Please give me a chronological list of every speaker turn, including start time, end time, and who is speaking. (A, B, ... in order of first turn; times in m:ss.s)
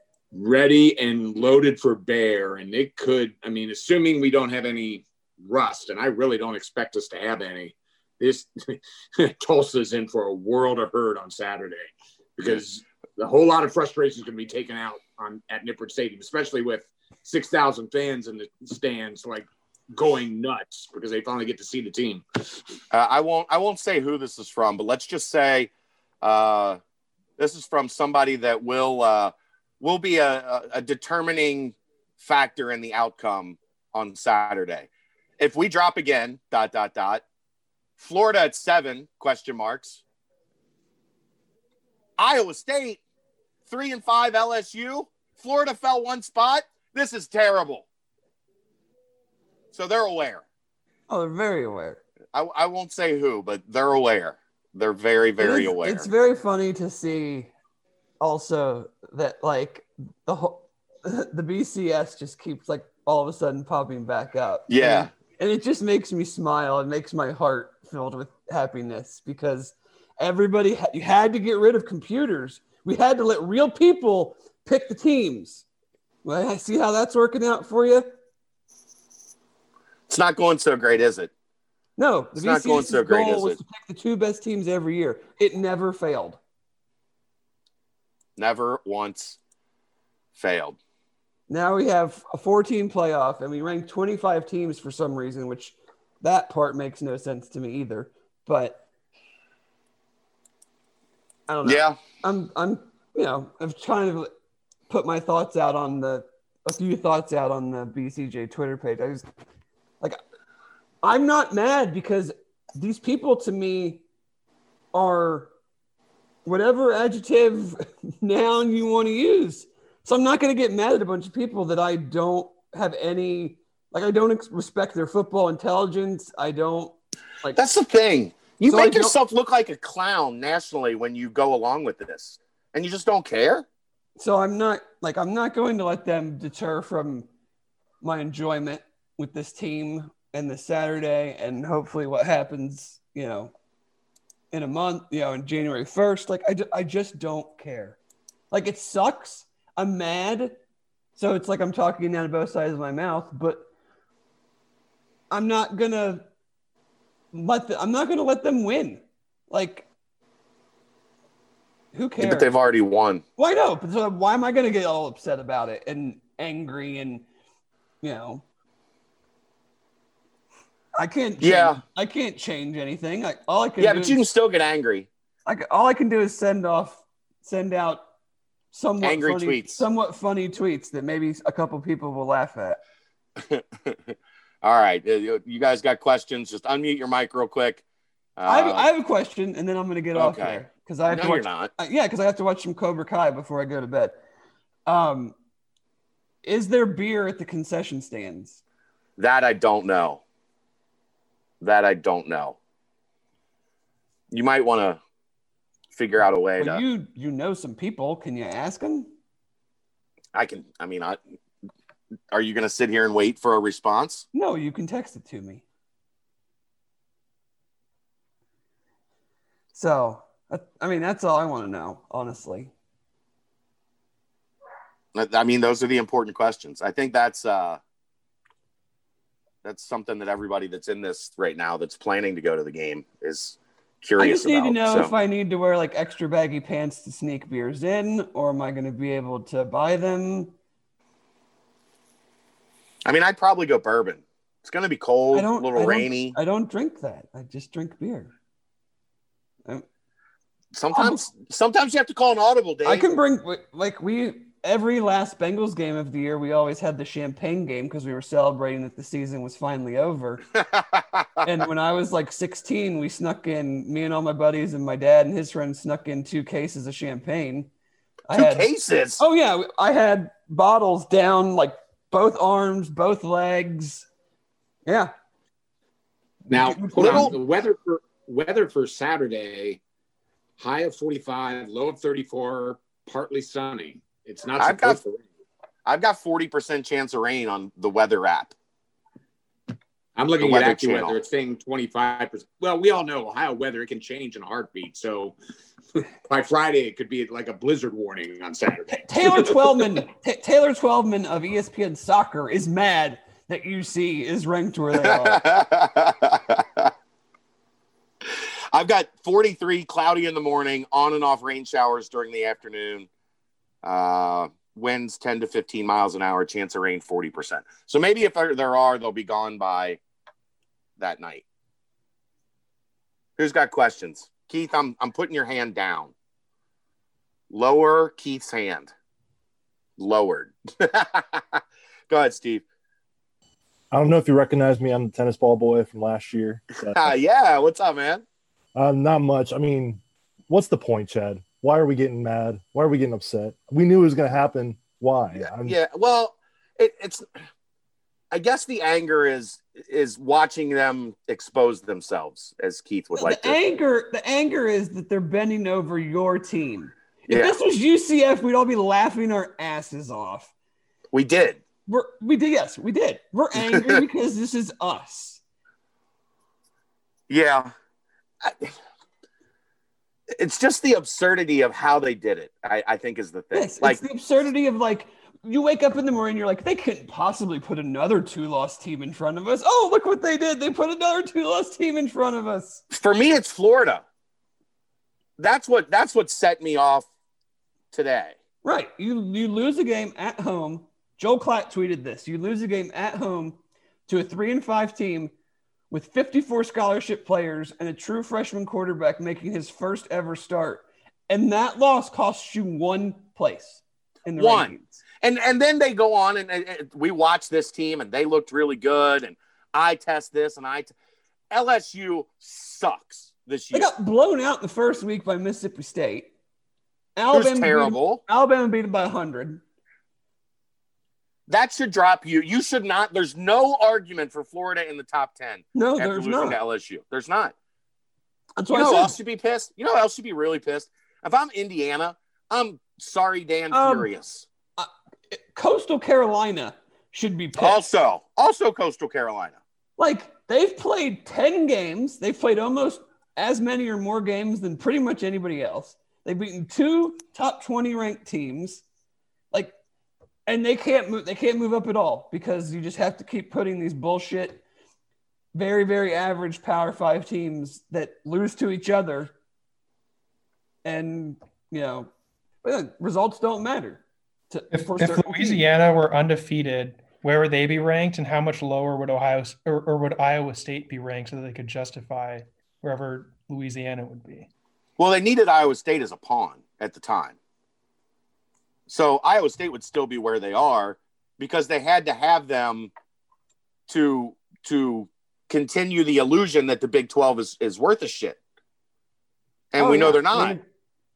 0:00.3-0:22.2 A
0:22.9-0:25.7 B
0:26.2-0:26.8 B
0:27.4-0:37.2 B
0:38.0-0:40.0 B
0:42.2-0:43.0 B
0:43.7-0:47.8 B
0:49.7-0:50.4 B
0:51.1-0:52.0 C
0:52.3-0:56.1 B
0:55.4-0:57.5 C
0:58.2-1:15.6 C
1:04.7-1:05.1 B
1:16.2-1:18.2 C
1:20.1-1:21.3 B
1:22.0-1:26.4 C
1:22.4-1:23.6 B
1:28.4-1:29.4 B
1:30.4-1:30.8 B
1:31.5-1:38.8 C
1:41.5-1:44.3 C
1:41.6-1:42.0 B
1:44.9-1:49.3 C
1:51.0-1:54.0 C
1:54.9-1:55.5 C
1:56.4-2:07.6 C
2:07.5-2:13.6 B
2:08.7-2:09.2 C
2:14.2-2:17.3 C
2:18.0-2:23.5 C
2:24.5-2:28.0 C
2:28.5-2:30.6 C
2:31.2-2:33.7 C
2:35.3-2:36.2 C
2:37.3-2:39.8 C
2:41.9-2:42.5 C
2:42.2-2:43.2 B
2:43.4-2:47.2 C
2:48.0-2:48.4 C
2:51.0-2:54.2 C
2:51.4-2:51.8 B
2:53.8-2:55.1 B
2:55.4-2:58.0 C
2:58.7-3:02.8 C
2:59.0-2:59.8 B
3:03.5-3:04.0 B
3:04.6-3:07.8 B
3:08.4-3:08.9 B
3:08.4-3:14.2 C
3:10.1-3:11.7 B
3:14.9-3:15.3 C
3:16.4-3:18.6 C
3:19.2-3:20.2 B
3:21.6-3:22.6 B
3:24.3-3:25.0 B
3:25.9-3:26.8 B
3:26.6-3:29.1 C
3:30.3-3:31.2 B
3:32.3-3:34.2 B
3:34.3-3:35.6 C
3:39.7-3:42.7 C
3:45.1-3:47.8 B
3:49.6-3:55.1 B
3:54.2-4:00.5 C
4:03.0-4:06.3 B
4:05.3-4:08.3 C
4:10.7-4:13.1 B
4:10.9-4:11.2 C
4:12.8-4:20.5 C
4:20.8-4:21.0 B
4:21.4-4:27.7 C
4:28.3-4:28.7 C
4:28.3-4:29.2 B
4:29.2-4:34.1 C
4:34.8-4:35.1 C
4:36.5-4:39.8 A
4:37.0-4:37.3 B
4:40.6-4:45.2 A
4:44.6-4:45.0 B
4:45.8-4:48.5 B
4:50.2-4:55.3 A
4:50.4-4:51.2 B
4:56.3-4:59.5 A
4:58.9-5:05.4 C
5:05.0-5:06.9 B
5:08.7-5:13.1 B
5:13.8-5:20.0 B
5:21.0-5:21.4 B
5:23.4-5:26.1 B
5:27.5-5:28.9 B
5:30.0-5:32.6 B
5:33.9-5:37.1 D
5:36.8-5:38.2 B
5:38.8-5:45.8 D
5:45.4-5:47.2 B
5:48.3-5:53.6 B
5:53.2-6:00.5 C
5:57.3-5:57.6 B
6:01.1-6:01.6 B
6:01.9-6:05.4 C
6:03.6-6:04.0 B
6:07.3-6:07.7 B
6:08.4-6:08.7 B
6:10.4-6:14.0 B
6:13.5-6:22.8 C
6:22.9-6:24.0 B
6:25.4-6:27.1 B
6:27.9-6:28.4 B
6:28.6-6:35.3 C
6:35.9-6:45.0 C
6:44.4-6:50.9 B
6:51.5-6:53.9 B
6:53.7-6:56.3 C
6:57.2-6:59.6 C
6:57.3-6:58.2 B
7:01.5-7:07.5 B
7:05.8-7:06.6 C
7:08.6-7:09.2 C
7:08.7-7:14.5 B
7:13.7-7:14.1 C
7:14.8-7:17.8 C
7:17.6-7:19.6 B
7:20.0-7:28.8 C
7:30.5-7:34.6 C
7:35.5-7:39.3 C
7:40.8-7:42.1 C
7:42.6-7:45.6 C
7:44.7-7:54.5 E
7:55.0-7:57.4 B
7:58.9-8:02.9 B
8:03.9-8:08.4 B
8:09.7-8:10.6 B
8:09.8-8:10.6 C